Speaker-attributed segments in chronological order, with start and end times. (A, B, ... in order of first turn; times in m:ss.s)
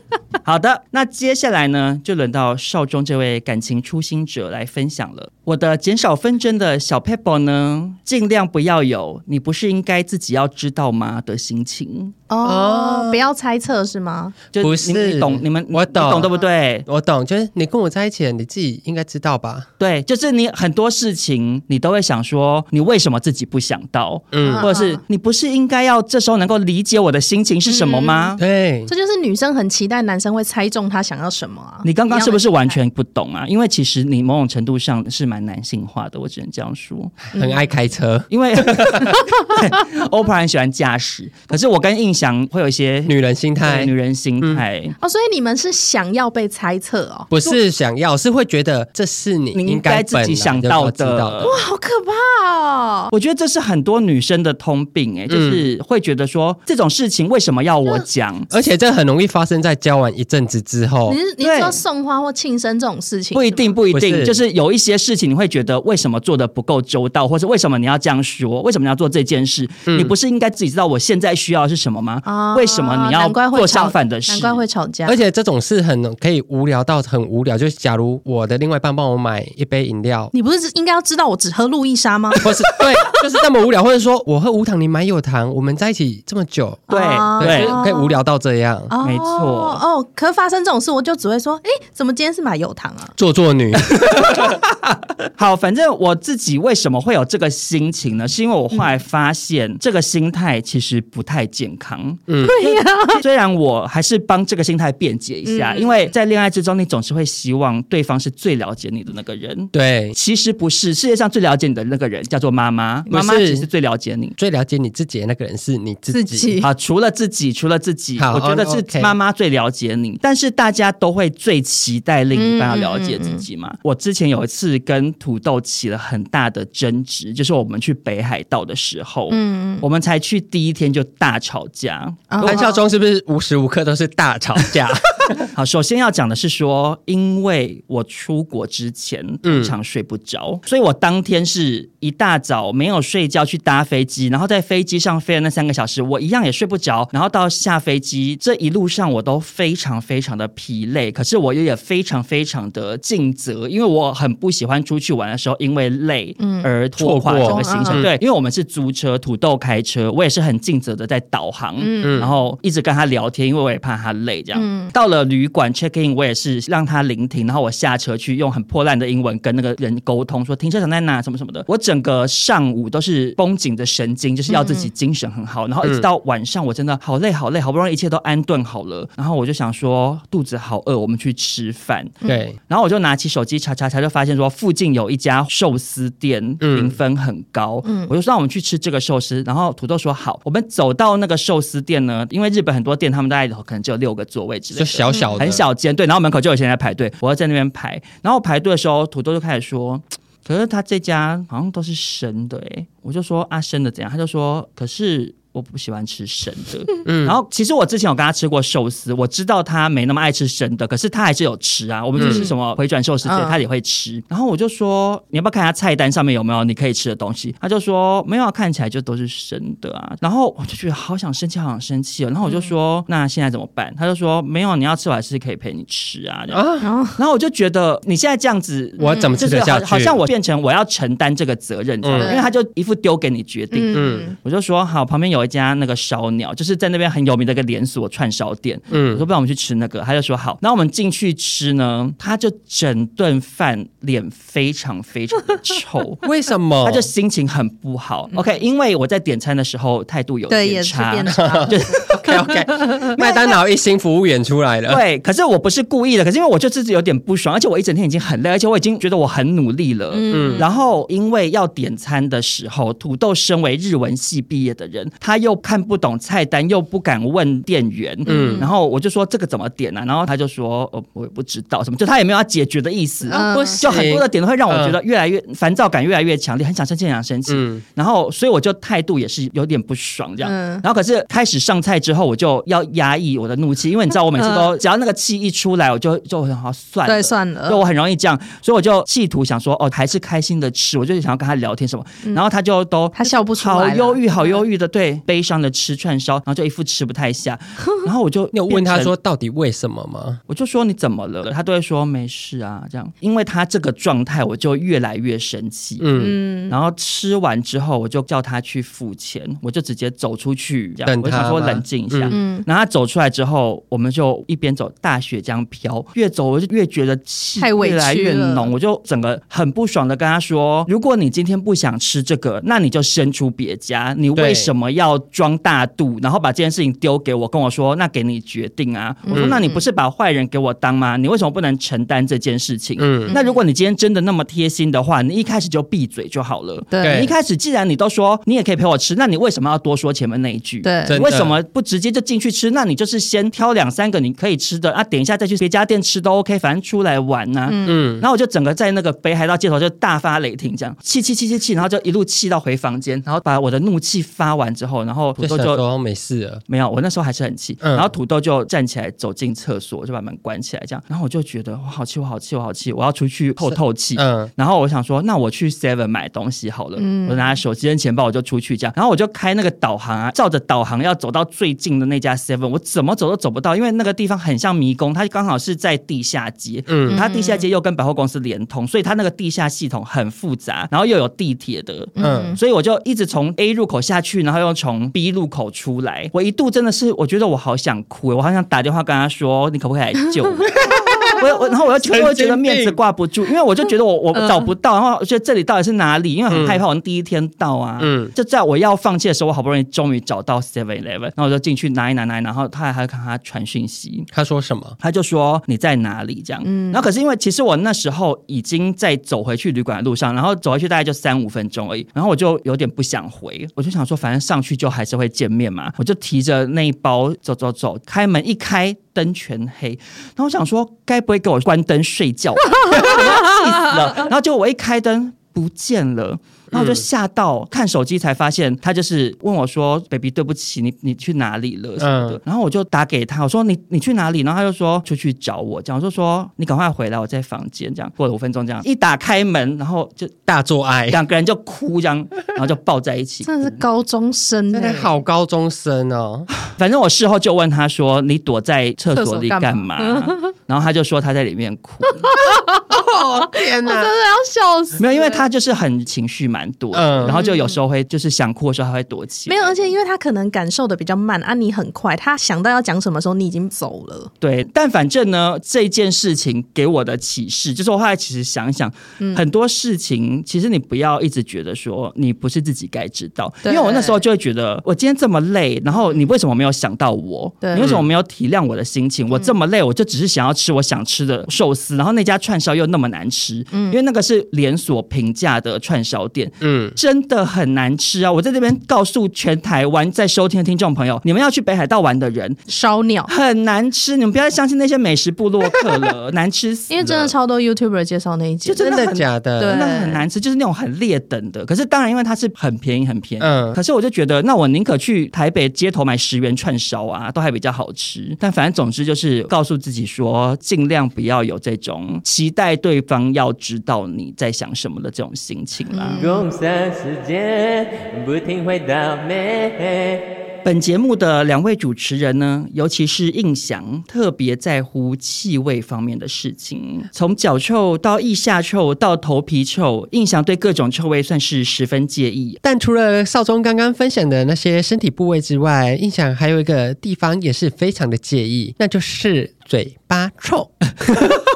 0:00.4-0:12.1 A
0:12.3-0:14.4 B
0:12.4-0:13.2 C
0:14.5-0:16.8 A
0:14.6-0:16.3 C
0:16.8-0:19.6 C
0:19.8-0:28.4 A
0:24.3-0:24.7 C
0:24.4-0:25.0 B
0:27.7-0:32.8 B
0:28.4-0:28.9 C
0:31.8-0:37.2 A
0:37.2-0:39.2 C
0:37.3-0:37.6 B
0:38.3-0:44.9 A
0:43.0-0:44.6 C
0:45.0-0:47.3 B
0:47.3-0:51.5 C
0:49.5-0:51.6 A
0:51.4-0:53.1 B
0:53.1-0:58.5 A
0:55.3-0:55.6 C
0:58.5-1:01.2 C
1:01.1-1:03.8 B
1:01.4-1:01.8 A
1:03.3-1:14.6 A
1:03.9-1:04.4 C
1:09.9-1:10.1 C
1:12.2-1:15.2 B
1:15.0-1:20.3 C
1:20.3-1:22.5 B
1:22.4-1:28.9 C
1:26.9-1:28.2 B
1:26.9-1:27.8 A
1:28.9-1:33.1 B
1:29.0-1:29.8 A
1:33.2-1:34.5 C
1:34.0-1:54.3 A
1:42.3-1:42.5 C
1:42.4-1:43.2 B
1:45.4-1:46.1 B
1:49.7-1:50.2 C
1:53.1-1:53.7 C
1:54.4-1:56.5 C
1:56.1-1:56.7 B
1:56.6-2:12.6 A
1:58.2-1:59.1 C
2:02.3-2:03.4 B
2:09.3-2:09.8 B
2:12.3-2:12.8 B
2:12.4-2:15.5 C
2:15.4-3:46.6 A
2:19.4-2:19.7 C
2:36.4-2:36.7 B
2:37.0-2:38.1 C
2:37.4-2:38.1 B
2:41.8-2:42.3 B
2:42.0-2:42.3 C
2:44.5-2:44.9 B
2:54.5-2:54.9 B
3:02.2-3:02.6 C
3:06.6-3:07.0 C
3:07.8-3:08.1 B
3:14.7-3:15.6 C
3:15.1-3:15.4 B
3:27.0-3:27.4 C
3:32.2-3:32.5 B
3:32.2-3:32.4 C
3:33.2-3:33.6 B
3:42.4-3:42.7 B
3:46.5-3:46.9 C
3:46.8-3:47.2 B
3:47.2-4:06.2 A
3:49.0-3:50.2 C
3:49.0-3:49.4 B
3:52.0-3:52.3 C
3:52.2-3:52.5 B
3:53.7-3:54.4 B
3:53.9-3:54.2 C
3:58.9-3:59.2 C
4:06.2-4:07.1 C
4:06.8-4:12.5 A
4:10.5-4:13.3 B
4:11.3-4:15.0 C
4:14.9-4:59.1 A
4:20.1-4:20.7 B
4:20.3-4:20.6 C
4:28.2-4:28.7 B
4:28.2-4:28.6 C
4:33.3-4:34.0 B
4:33.4-4:35.0 C
4:37.5-4:37.8 C
4:40.4-4:40.8 B
4:44.4-4:44.7 B
4:47.0-4:47.8 B
4:53.1-4:54.6 B
4:58.5-5:00.4 C
5:00.5-5:06.2 A
5:06.0-5:06.4 C
5:06.2-5:06.7 B
5:06.7-5:55.8 A
5:11.0-5:12.4 C
5:12.3-5:12.7 B
5:17.6-5:18.7 B
5:24.4-5:24.7 C
5:29.2-5:29.8 B
5:29.3-5:29.6 C
5:33.0-5:33.3 C
5:33.3-5:33.6 B
5:36.9-5:37.3 B
5:37.0-5:37.3 C
5:40.8-5:41.2 B
5:41.1-5:41.6 C
5:47.6-5:48.0 B
5:47.8-5:48.2 C
5:55.4-5:56.6 C
5:56.7-6:44.3 A
5:57.8-5:58.1 C
6:03.6-6:04.5 C
6:07.0-6:07.5 B
6:16.9-6:17.2 C
6:17.1-6:17.6 B
6:22.2-6:22.6 B
6:22.2-6:22.6 C
6:30.7-6:33.0 C
6:31.1-6:31.3 B
6:36.5-6:36.8 C
6:38.0-6:38.3 C
6:44.3-6:45.0 C
6:45.0-7:20.3 A
6:46.6-6:47.0 B
7:06.7-7:07.0 C
7:12.0-7:12.4 C
7:20.5-7:21.2 C
7:21.1-7:23.8 A
7:23.4-7:25.2 B
7:24.7-7:26.5 C
7:26.7-7:32.3 A
7:29.1-7:30.5 B
7:32.1-7:35.5 B
7:32.5-7:34.1 C
7:35.0-7:39.9 A
7:36.9-7:37.4 C
7:37.2-7:37.8 B
7:39.5-7:44.3 B
7:44.4-8:12.6 A
7:53.6-7:54.2 B
7:55.9-7:56.2 B
7:57.6-7:57.9 B
7:57.8-7:58.1 C
8:03.7-8:04.0 B
8:06.6-8:07.0 C
8:12.7-8:13.3 B
8:13.3-8:17.3 A
8:16.9-8:20.2 B
8:18.6-8:36.2 A
8:18.8-8:19.8 C
8:23.4-8:23.8 C
8:35.9-8:36.5 B
8:36.1-8:40.2 D
8:40.6-8:52.6 A
8:52.6-9:01.4 C